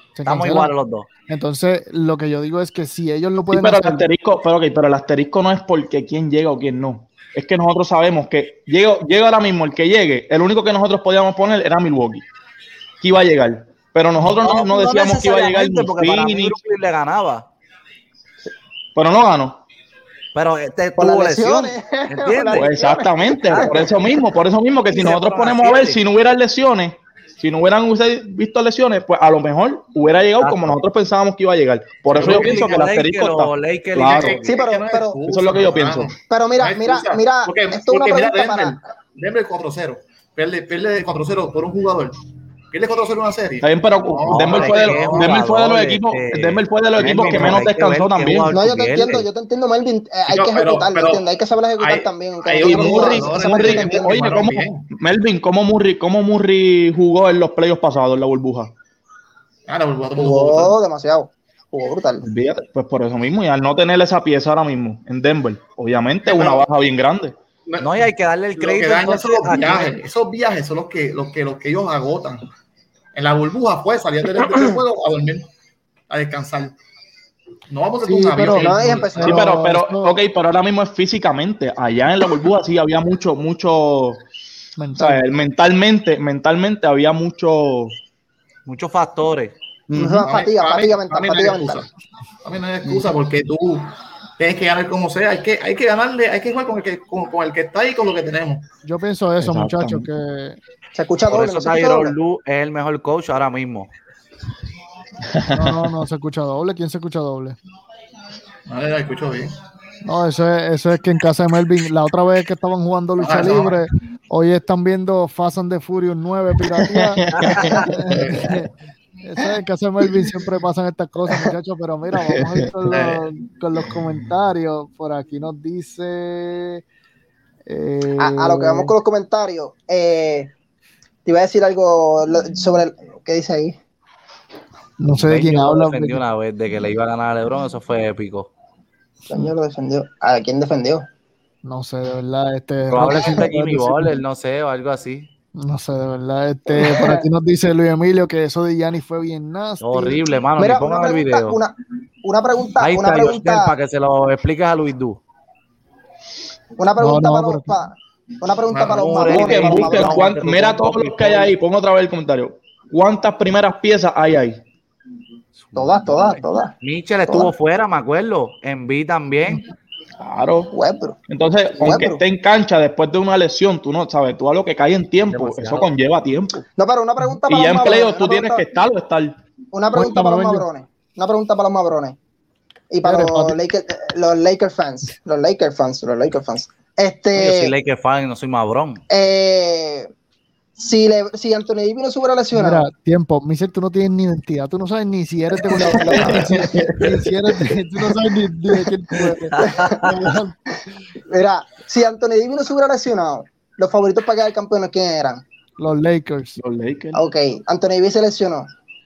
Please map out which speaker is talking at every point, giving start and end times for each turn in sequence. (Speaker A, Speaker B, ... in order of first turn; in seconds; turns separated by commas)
Speaker A: 0.2-0.7, Speaker B: 0.3-1.1, Speaker A: 1.3-4.1, Speaker C: 3.5-12.3, Speaker C: 13.0-16.6, Speaker B: 14.2-17.5, Speaker C: 18.9-19.6, Speaker B: 20.4-22.7, Speaker D: 21.0-23.9, Speaker C: 22.5-34.4, Speaker B: 23.5-23.9, Speaker B: 24.9-26.0, Speaker B: 30.4-30.8, Speaker E: 32.1-32.9, Speaker B: 32.2-34.5, Speaker E: 34.0-42.2, Speaker D: 34.5-35.2, Speaker C: 35.3-36.1, Speaker D: 36.3-38.8, Speaker E: 42.7-45.5, Speaker C: 43.6-48.5, Speaker B: 44.3-49.3, Speaker E: 47.2-47.6, Speaker D: 48.5-54.3, Speaker E: 50.3-51.3, Speaker E: 51.8-54.9, Speaker C: 52.6-58.8, Speaker E: 59.7-60.8, Speaker D: 60.2-62.2, Speaker C: 62.2-67.4, Speaker E: 66.2-66.7, Speaker E: 67.7-72.5, Speaker B: 67.8-70.0, Speaker E: 73.1-75.5, Speaker E: 76.1-76.8, Speaker E: 77.7-79.4, Speaker A: 78.0-78.7, Speaker D: 78.5-79.5, Speaker C: 79.2-84.2, Speaker A: 79.2-80.1, Speaker A: 84.8-85.2, Speaker C: 85.0-88.0, Speaker B: 88.7-90.2, Speaker D: 89.9-91.8, Speaker E: 90.2-91.9, Speaker E: 92.4-98.7, Speaker A: 98.8-100.6, Speaker C: 99.4-100.1, Speaker D: 101.0-102.2, Speaker B: 101.3-103.9, Speaker C: 105.3-105.9, Speaker A: 105.5-107.6, Speaker E: 108.7-109.5, Speaker A: 110.0-126.8, Speaker E: 113.2-113.9, Speaker C: 116.7-118.2, Speaker B: 117.3-118.0, Speaker E: 118.1-118.6, Speaker C: 122.2-122.7, Speaker E: 122.9-123.2, Speaker A: 127.7-128.9, Speaker D: 128.2-130.5, Speaker D: 131.3-133.8, Speaker A: 135.0-136.2, Speaker B: 135.1-138.5, Speaker D: 139.3-141.1, Speaker A: 141.6-144.1, Speaker B: 142.9-145.3, Speaker A: 145.6-150.2, Speaker D: 146.7-147.3, Speaker B: 149.8-151.6, Speaker D: 150.6-153.7, Speaker B: 152.8-155.2, Speaker D: 156.8-160.3, Speaker A: 157.0-157.8, Speaker B: 158.7-161.5, Speaker C: 159.1-164.6, Speaker B: 165.7-169.6, Speaker D: 165.8-166.8, Speaker D: 167.3-167.5, Speaker C: 170.2-170.7, Speaker D: 170.7-171.2, Speaker C: 171.3-176.7, Speaker D: 171.8-172.2, Speaker B: 175.3-175.9, Speaker D: 176.8-178.7, Speaker C: 177.5-179.4, Speaker D: 179.7-182.2, Speaker A: 179.9-180.7, Speaker D: 182.9-187.7, Speaker A: 183.0-183.6, Speaker B: 187.3-189.0, Speaker D: 189.1-190.1, Speaker D: 190.8-192.9, Speaker A: 192.5-200.8, Speaker D: 195.6-196.7, Speaker C: 196.2-197.7, Speaker D: 199.6-200.0, Speaker B: 199.6-199.9, Speaker D: 201.3-205.4, Speaker A: 205.8-206.6, Speaker C: 206.6-207.2, Speaker D: 207.1-208.7